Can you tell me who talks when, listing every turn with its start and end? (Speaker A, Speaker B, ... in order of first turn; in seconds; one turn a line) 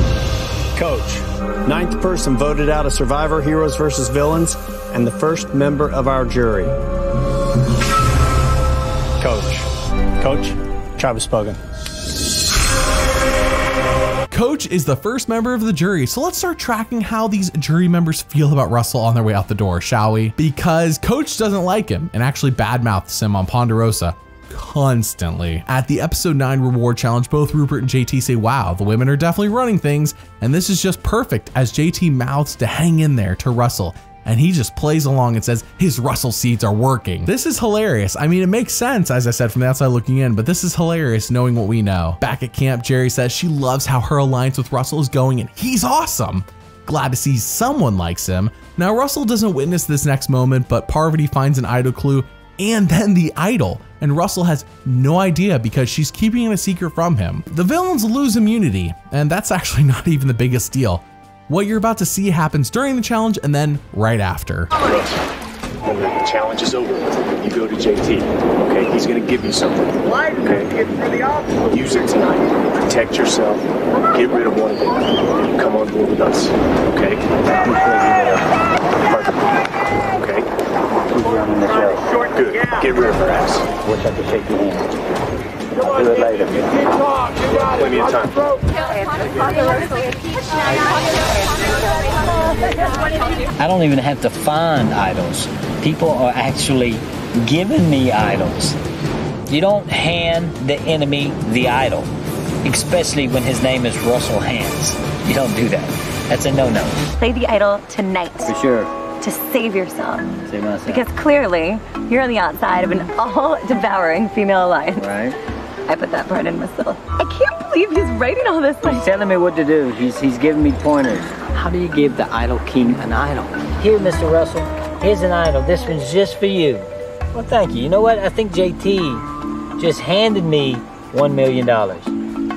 Speaker A: 0.7-6.7
Speaker A: 9.2-9.7
Speaker A: 10.2-11.6
Speaker B: 14.3-64.7
Speaker C: 64.8-65.2
Speaker C: 65.8-70.9
Speaker C: 71.7-78.4
Speaker C: 79.0-79.6
Speaker C: 80.1-80.5
Speaker D: 81.1-82.0
Speaker C: 82.3-83.7
Speaker D: 83.8-85.0
Speaker D: 85.8-86.9
Speaker C: 87.5-88.5
Speaker D: 93.5-98.8
Speaker D: 99.5-102.1
Speaker D: 102.6-107.0
Speaker E: 107.2-108.5
Speaker D: 108.5-108.9
Speaker E: 109.2-110.3
Speaker D: 110.4-111.0
Speaker E: 110.9-115.1
Speaker D: 115.0-115.4
Speaker E: 115.8-119.0
Speaker D: 118.8-129.2
Speaker D: 129.8-132.1